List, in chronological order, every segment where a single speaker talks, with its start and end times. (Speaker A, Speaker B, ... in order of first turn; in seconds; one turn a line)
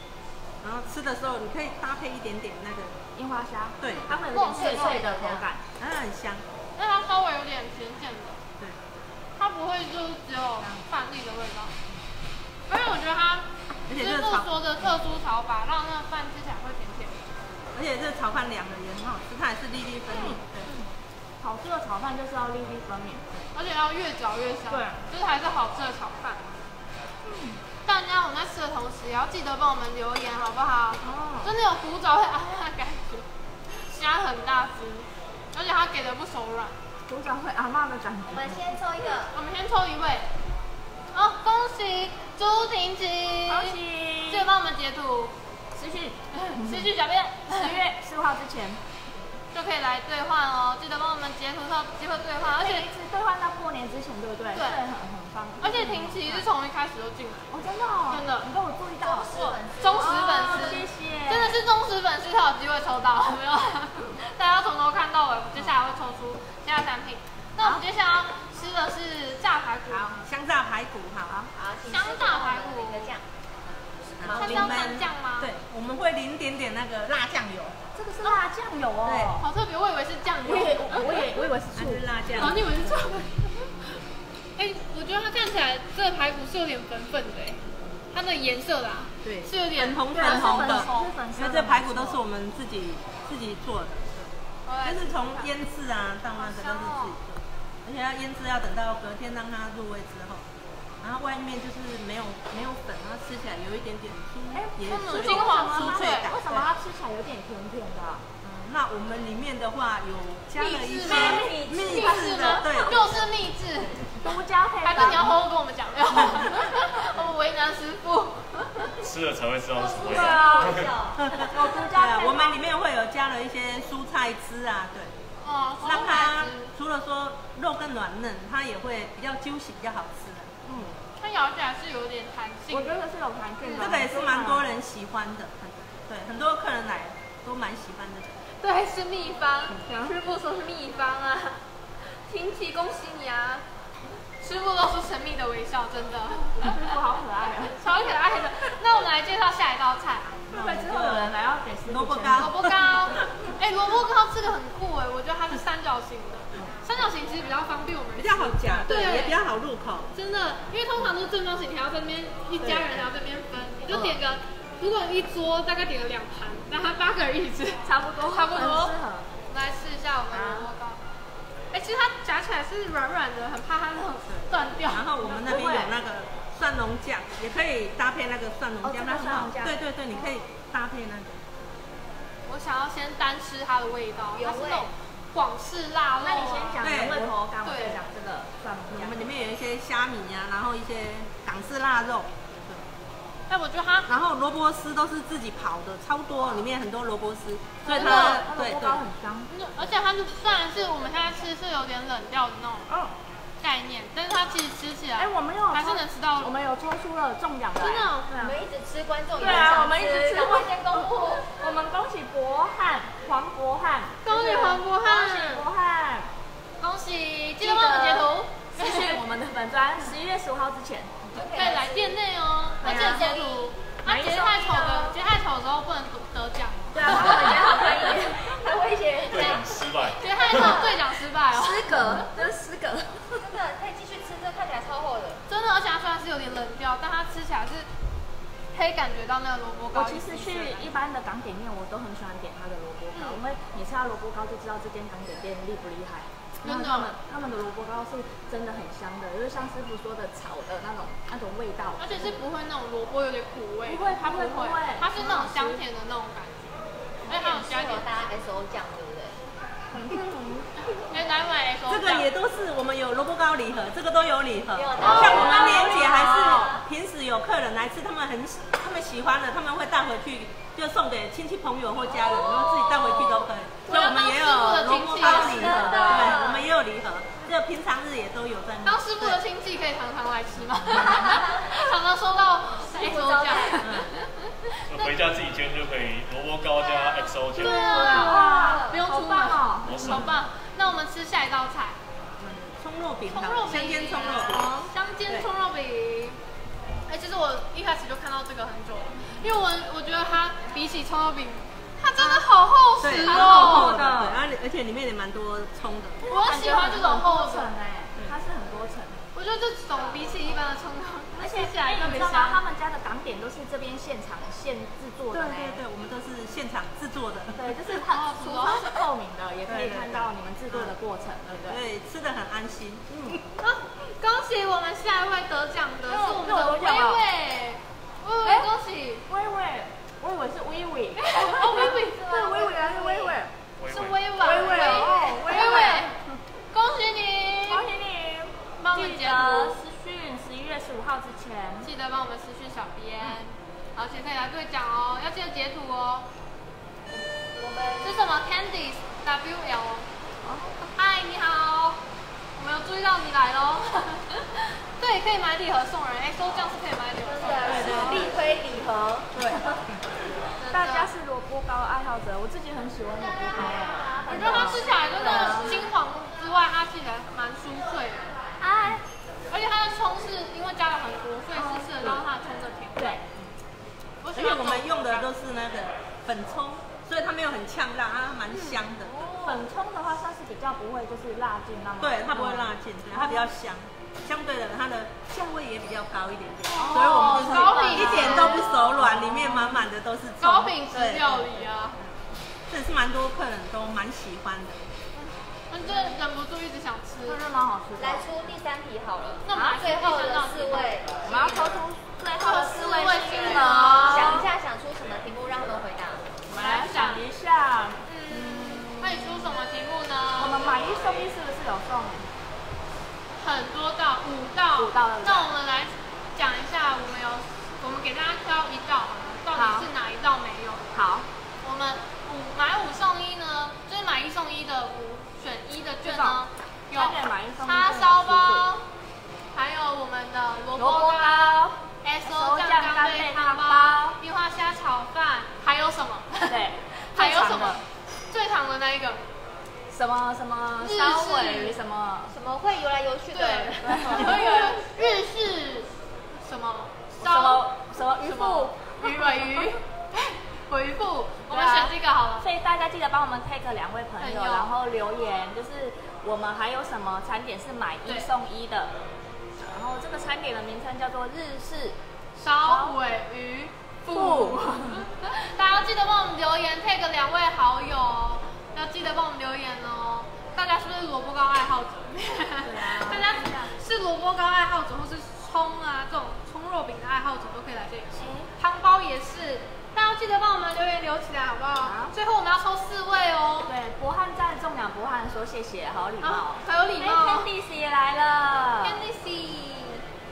Speaker A: 0.6-3.0
Speaker B: 3.1-5.6
Speaker A: 3.8-4.1
Speaker C: 4.1-5.5
Speaker D: 4.5-5.0
Speaker A: 5.8-6.4
Speaker D: 6.8-8.4
Speaker A: 8.6-8.9
Speaker D: 9.4-11.7
Speaker D: 12.7-17.2
Speaker A: 13.9-14.9
Speaker A: 17.7-20.7
Speaker B: 20.2-20.8
Speaker B: 21.4-23.2
Speaker D: 23.5-26.6
Speaker B: 24.7-25.0
Speaker B: 27.2-27.6
Speaker D: 27.8-36.8
Speaker B: 31.0-31.5
Speaker B: 37.1-38.6
Speaker C: 38.3-39.3
Speaker D: 39.3-40.3
Speaker D: 41.1-43.8
Speaker B: 43.5-44.5
Speaker D: 44.3-45.3
Speaker B: 45.7-46.9
Speaker D: 46.3-47.8
Speaker B: 47.5-48.8
Speaker D: 49.5-52.9
Speaker B: 52.6-56.5
Speaker D: 54.5-54.8
Speaker D: 55.6-57.5
Speaker B: 57.5-61.6
Speaker D: 58.1-58.5
Speaker C: 59.0-60.8
Speaker D: 59.3-70.2
Speaker A: 70.2-71.4
Speaker C: 71.5-73.2
Speaker D: 71.9-73.1
Speaker C: 74.0-74.9
Speaker A: 74.2-77.8
Speaker B: 74.3-74.9
Speaker D: 74.3-75.5
Speaker B: 78.0-79.5
Speaker A: 79.0-79.3
Speaker D: 79.4-81.2
Speaker B: 80.4-82.6
Speaker A: 81.7-83.0
Speaker D: 82.4-83.8
Speaker D: 84.5-87.6
Speaker D: 88.1-91.1
Speaker A: 89.2-100.5
Speaker B: 90.1-92.2
Speaker D: 94.7-95.5
Speaker D: 96.4-97.1
Speaker A: 101.0-106.7
Speaker B: 104.5-108.2
Speaker D: 104.9-106.3
Speaker A: 108.4-113.2
Speaker D: 110.5-114.0
Speaker B: 111.0-113.2
Speaker A: 113.8-114.2
Speaker B: 114.2-115.3
Speaker D: 114.8-118.9
Speaker A: 115.0-115.2
Speaker E: 119.0-120.9
Speaker C: 119.7-121.2
Speaker B: 120.1-122.7
Speaker A: 121.1-125.1
Speaker D: 125.4-126.7
Speaker A: 125.8-130.9
Speaker B: 130.7-130.9
Speaker D: 131.2-132.9
Speaker B: 132.7-134.7
Speaker D: 133.6-134.0
Speaker A: 133.8-138.4
Speaker D: 138.6-143.6
Speaker B: 139.7-140.2
Speaker D: 144.4-146.9
Speaker B: 146.6-147.7
Speaker D: 147.8-150.3
Speaker A: 150.5-153.3
Speaker B: 150.5-152.5
Speaker D: 152.4-159.4
Speaker A: 158.2-160.1
Speaker D: 160.1-168.9
Speaker A: 162.6-163.1
Speaker B: 167.8-169.3
Speaker D: 169.5-171.0
Speaker B: 170.3-170.7
Speaker D: 171.7-175.1
Speaker A: 174.3-181.4
Speaker B: 175.2-175.9
Speaker B: 178.8-179.8
Speaker D: 182.5-186.8
Speaker C: 184.3-184.9
Speaker B: 186.2-189.3
Speaker A: 186.8-187.3
Speaker D: 187.6-188.0
Speaker A: 188.9-192.8
Speaker D: 193.5-194.1
Speaker A: 194.1-199.0
Speaker B: 197.8-199.5
Speaker D: 197.9-198.4
Speaker D: 199.5-202.9
Speaker B: 202.9-203.1
Speaker D: 203.6-206.5
Speaker B: 205.2-208.6
Speaker D: 207.8-208.3
Speaker C: 208.3-211.5
Speaker B: 209.4-216.3
Speaker D: 214.2-215.7
Speaker D: 216.8-219.2
Speaker B: 217.6-221.3
Speaker C: 221.3-222.2
Speaker D: 221.5-227.7
Speaker C: 222.8-223.7
Speaker B: 222.8-223.3
Speaker B: 224.0-225.2
Speaker B: 226.9-228.6
Speaker C: 227.2-229.7
Speaker E: 229.3-230.8
Speaker D: 229.3-232.2
Speaker C: 230.4-230.9
Speaker B: 230.5-231.0
Speaker B: 231.5-233.4
Speaker C: 231.9-232.3
Speaker C: 233.3-235.4
Speaker D: 235.5-237.9
Speaker D: 238.7-240.9
Speaker B: 239.9-252.4
Speaker D: 243.1-243.4
Speaker D: 246.6-247.1
Speaker D: 252.0-258.1
Speaker B: 253.8-255.8
Speaker C: 257.3-259.4
Speaker B: 259.9-260.6
Speaker D: 261.0-262.3
Speaker A: 261.9-279.4
Speaker C: 264.7-266.8
Speaker D: 265.0-266.4
Speaker B: 265.0-266.8
Speaker D: 272.1-276.4
Speaker B: 275.2-276.5
Speaker C: 275.6-276.6
Speaker D: 278.8-285.1
Speaker C: 282.9-283.8
Speaker A: 283.8-284.1
Speaker E: 284.9-288.4
Speaker D: 287.5-292.0
Speaker B: 287.6-290.3
Speaker C: 288.3-288.9
Speaker E: 289.8-290.3
Speaker A: 292.4-295.5
Speaker D: 293.3-296.4
Speaker B: 294.5-294.9
Speaker D: 297.1-303.9
Speaker A: 303.0-306.2
Speaker B: 303.2-304.4
Speaker B: 306.2-309.2
Speaker D: 306.2-307.7
Speaker D: 309.3-312.6
Speaker B: 311.4-315.8
Speaker A: 315.3-317.8
Speaker B: 317.5-321.8
Speaker D: 318.1-319.0
Speaker A: 319.7-320.9
Speaker A: 321.5-323.4
Speaker B: 323.1-323.4
Speaker D: 323.6-329.2
Speaker B: 326.1-327.2
Speaker B: 328.4-328.7
Speaker B: 329.3-333.5
Speaker D: 331.2-332.4
Speaker C: 331.8-333.4
Speaker E: 333.8-334.4
Speaker D: 333.9-336.1
Speaker B: 334.4-336.1
Speaker C: 334.5-335.4
Speaker D: 336.7-337.8
Speaker B: 337.7-341.9
Speaker D: 338.8-339.8
Speaker D: 341.8-346.3
Speaker C: 347.4-348.2
Speaker D: 348.0-350.1
Speaker B: 350.4-350.7
Speaker D: 350.9-352.0
Speaker D: 352.6-358.3
Speaker C: 357.2-359.4
Speaker A: 357.6-358.3
Speaker B: 357.9-358.3
Speaker A: 359.3-359.7
Speaker D: 360.6-361.1
Speaker B: 360.7-365.9
Speaker C: 363.5-365.8
Speaker D: 364.2-368.3
Speaker B: 368.6-369.0
Speaker D: 369.5-373.2
Speaker B: 371.5-372.2
Speaker B: 372.9-373.2
Speaker D: 374.2-375.3
Speaker A: 374.3-379.2
Speaker D: 378.5-379.6
Speaker B: 379.4-383.5
Speaker A: 382.0-392.1
Speaker D: 386.7-389.1
Speaker B: 386.7-389.9
Speaker D: 390.4-392.0
Speaker A: 392.7-394.9
Speaker D: 395.1-397.4
Speaker B: 397.2-398.3
Speaker C: 397.9-401.2
Speaker D: 399.4-401.7
Speaker B: 401.2-404.5
Speaker D: 402.4-404.4
Speaker C: 403.5-406.4
Speaker B: 406.5-409.4
Speaker D: 406.5-407.2
Speaker D: 408.0-410.7
Speaker B: 410.4-412.3
Speaker D: 413.4-420.9
Speaker B: 414.8-415.5
Speaker B: 419.5-419.9
Speaker B: 420.9-421.3
Speaker D: 421.6-428.9
Speaker B: 426.0-428.7
Speaker D: 429.5-436.6
Speaker B: 430.7-434.2
Speaker B: 436.5-437.8
Speaker D: 437.1-439.2
Speaker B: 439.9-442.3
Speaker D: 440.8-441.8
Speaker C: 442.3-444.2
Speaker D: 443.3-452.5
Speaker B: 443.9-444.7
Speaker B: 447.2-449.8
Speaker B: 451.5-458.9
Speaker D: 454.2-454.7
Speaker D: 458.0-458.3
Speaker B: 459.6-462.9
Speaker D: 462.4-483.7
Speaker B: 464.1-465.0
Speaker A: 472.6-473.3
Speaker B: 472.9-473.5
Speaker B: 478.2-478.5
Speaker B: 481.8-482.1
Speaker B: 483.6-489.1
Speaker D: 486.2-487.5
Speaker D: 488.8-490.0